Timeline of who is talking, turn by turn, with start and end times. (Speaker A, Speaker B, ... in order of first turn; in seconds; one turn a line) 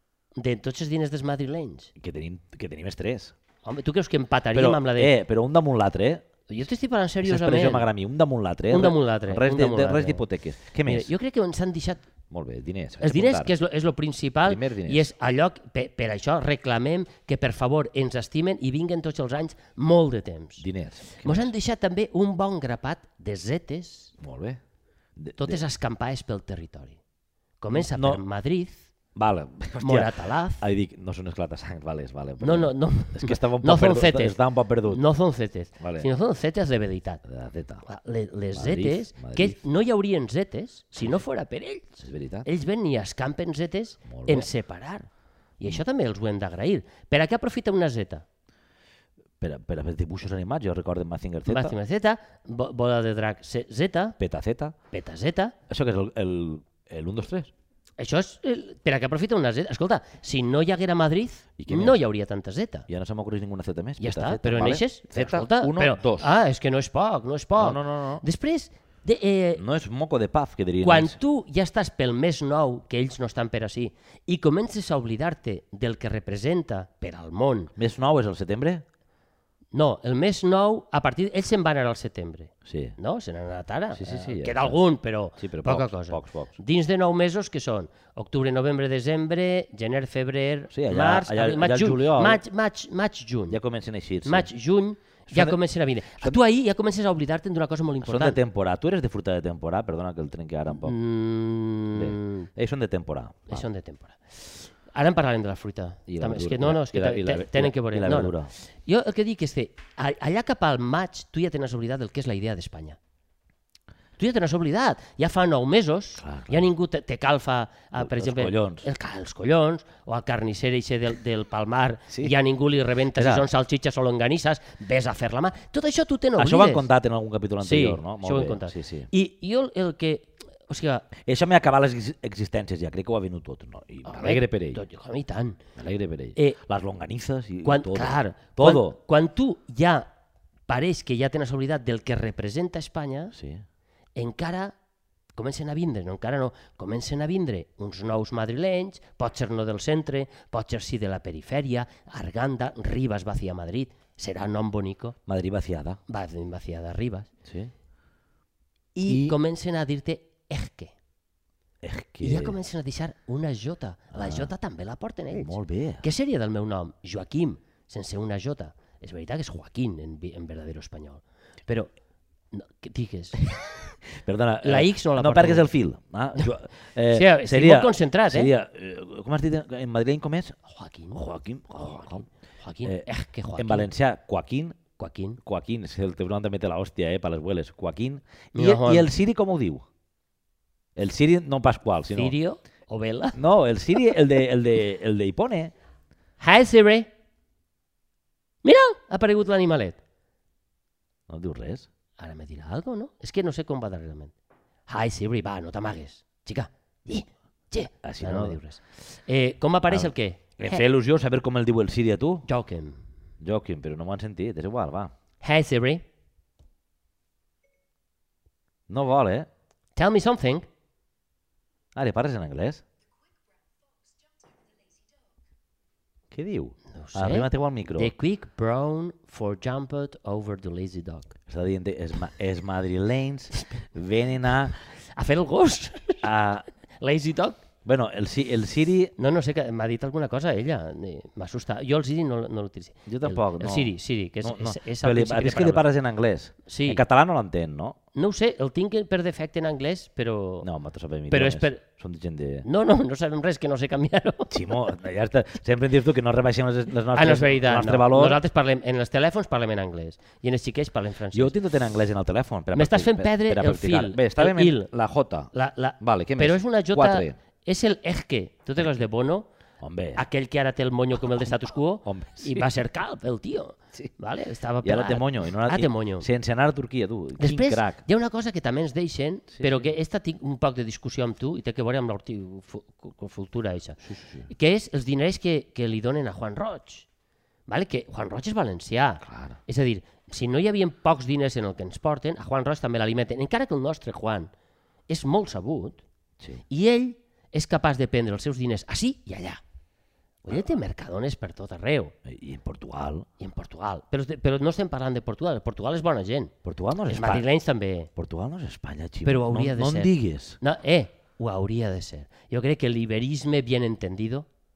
Speaker A: 0.4-1.9
Speaker B: 2.0-3.4
Speaker A: 3.6-5.2
Speaker B: 4.5-6.3
Speaker A: 6.5-7.9
Speaker B: 7.2-11.1
Speaker A: 8.7-10.2
Speaker A: 10.9-12.0
Speaker B: 12.3-13.5
Speaker A: 13.0-20.6
Speaker B: 14.4-15.1
Speaker B: 20.6-21.5
Speaker A: 21.2-24.1
Speaker B: 24.2-24.6
Speaker B: 25.2-25.6
Speaker A: 25.4-27.0
Speaker A: 27.6-28.9
Speaker B: 27.7-28.2
Speaker B: 29.1-35.0
Speaker A: 29.8-30.6
Speaker A: 32.4-37.2
Speaker B: 35.8-36.1
Speaker B: 37.2-37.9
Speaker A: 37.9-45.1
Speaker B: 38.5-39.6
Speaker B: 42.0-42.5
Speaker B: 44.1-44.5
Speaker A: 45.6-48.2
Speaker B: 49.4-51.8
Speaker A: 51.5-54.2
Speaker B: 54.2-54.8
Speaker A: 54.9-55.5
Speaker B: 55.7-57.5
Speaker A: 58.0-62.9
Speaker B: 61.6-62.0
Speaker B: 62.9-66.3
Speaker A: 64.0-69.6
Speaker B: 67.6-68.2
Speaker B: 69.6-71.2
Speaker A: 70.8-77.7
Speaker B: 77.8-78.8
Speaker A: 79.7-93.6
Speaker B: 82.7-83.0
Speaker B: 84.0-84.8
Speaker B: 85.4-86.5
Speaker B: 90.7-92.4
Speaker B: 93.5-94.5
Speaker A: 94.2-98.4
Speaker B: 95.3-95.6
Speaker B: 98.0-101.0
Speaker A: 100.8-102.5
Speaker B: 101.9-103.7
Speaker A: 103.5-113.0
Speaker B: 106.1-108.5
Speaker A: 114.2-126.9
Speaker B: 116.2-116.7
Speaker B: 118.0-118.9
Speaker B: 123.2-123.5
Speaker B: 126.4-129.1
Speaker A: 127.6-131.1
Speaker B: 131.2-134.8
Speaker A: 134.1-135.6
Speaker B: 135.8-139.0
Speaker A: 137.6-140.1
Speaker A: 140.7-143.3
Speaker B: 143.3-143.6
Speaker A: 144.2-144.8
Speaker A: 145.3-155.2
Speaker B: 155.3-156.0
Speaker A: 156.1-157.3
Speaker B: 157.5-157.7
Speaker A: 158.9-160.9
Speaker B: 159.1-159.3
Speaker B: 161.8-162.6
Speaker A: 162.2-171.9
Speaker B: 164.1-164.5
Speaker B: 165.3-166.0
Speaker A: 172.5-173.8
Speaker B: 174.2-180.6
Speaker A: 174.6-175.7
Speaker A: 177.1-178.5
Speaker A: 180.7-181.2
Speaker B: 181.2-182.3
Speaker A: 181.8-183.9
Speaker B: 182.8-184.8
Speaker A: 185.0-185.4
Speaker B: 185.4-189.9
Speaker A: 188.6-189.1
Speaker B: 191.0-192.3
Speaker A: 192.1-193.4
Speaker B: 193.4-195.7
Speaker A: 196.4-197.1
Speaker A: 198.6-200.0
Speaker B: 201.3-201.9
Speaker A: 202.2-204.3
Speaker A: 204.9-210.8
Speaker B: 208.0-208.6
Speaker B: 209.9-212.5
Speaker A: 212.5-213.0
Speaker B: 213.4-215.1
Speaker A: 215.4-216.0
Speaker B: 218.9-219.5
Speaker A: 220.0-220.7
Speaker B: 221.9-222.8
Speaker B: 226.3-228.1
Speaker A: 227.0-231.3
Speaker B: 231.5-234.7
Speaker A: 235.1-236.3
Speaker B: 236.2-236.7
Speaker A: 237.0-237.6
Speaker B: 237.8-239.1
Speaker A: 239.2-245.9
Speaker B: 243.1-248.0
Speaker A: 246.7-247.0
Speaker A: 248.2-250.7
Speaker B: 250.6-252.7
Speaker A: 251.3-251.8
Speaker A: 252.7-254.6
Speaker B: 254.5-258.4
Speaker A: 257.1-261.5
Speaker B: 261.3-267.4
Speaker A: 262.7-264.9
Speaker A: 265.5-269.5
Speaker B: 269.8-270.2
Speaker A: 270.1-276.3
Speaker B: 272.1-272.7
Speaker B: 274.8-278.0
Speaker A: 277.4-287.1
Speaker B: 279.5-279.9
Speaker B: 284.0-284.5
Speaker A: 287.7-294.5
Speaker B: 289.3-289.6
Speaker A: 295.1-296.0
Speaker A: 296.7-299.6
Speaker A: 300.4-302.1
Speaker B: 302.2-303.3
Speaker A: 303.4-306.5
Speaker B: 306.6-307.5
Speaker A: 307.1-308.1
Speaker B: 308.2-310.6
Speaker A: 309.2-314.5